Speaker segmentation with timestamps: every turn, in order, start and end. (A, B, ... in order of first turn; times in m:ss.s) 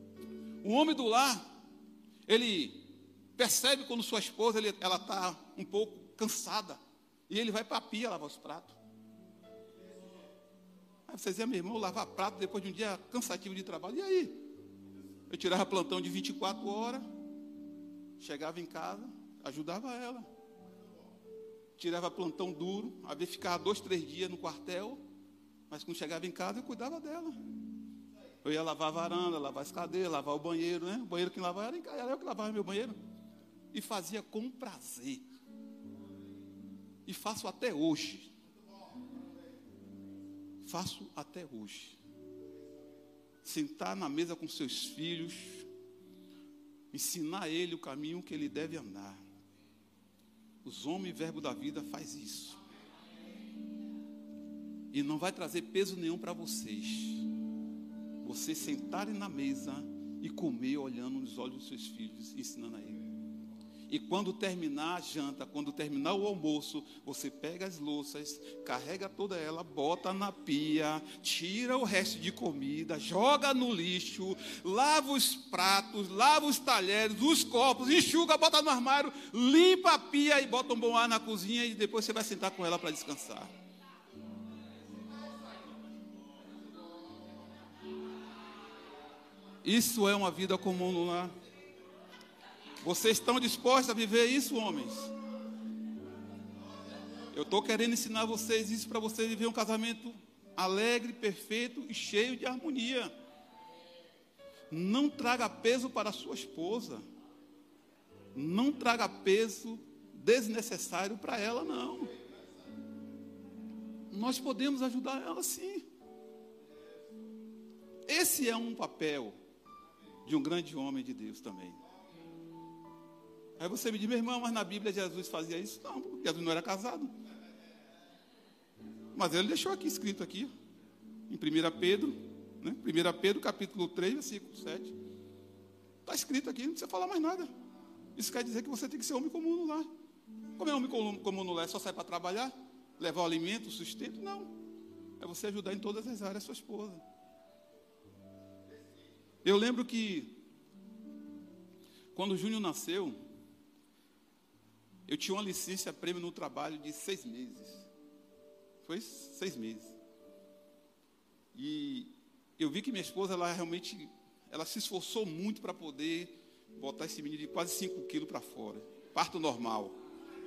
0:00.6-0:01.4 A
0:02.3-0:08.8 A
0:11.1-0:14.4 A
0:15.3-0:17.0 A
0:18.2-0:20.3 A
0:21.8-0:25.0 A
0:25.7-0:27.4 A
0:28.4-0:33.0 A
0:33.7-0:35.2 A
0:37.0-0:38.3 A
0:40.6-0:42.0 A
0:43.4-0:45.7 A
0:46.9-0:49.2 A
0:50.6-0:52.6 A
0:54.9-0:57.3 A
0:58.2-1:03.0 A
1:03.9-1:23.5 A
1:29.6-1:31.3 A
1:32.8-1:35.1 A
1:37.3-1:43.1 A
1:44.7-1:47.0 A
1:48.3-1:52.1 A
1:54.1-1:55.8 A
1:58.1-1:59.4 A
2:00.2-2:01.8 A
2:03.6-2:07.1 A
2:09.1-2:10.5 A
2:11.3-2:14.9 A
2:16.0-2:17.5 A
2:18.2-2:19.9 A
2:20.6-2:24.5 A
2:25.2-2:27.0 A
2:29.4-2:30.4 A
2:32.1-2:33.2 A
2:35.1-2:37.9 A
2:38.8-2:39.9 A
2:41.5-2:49.9 A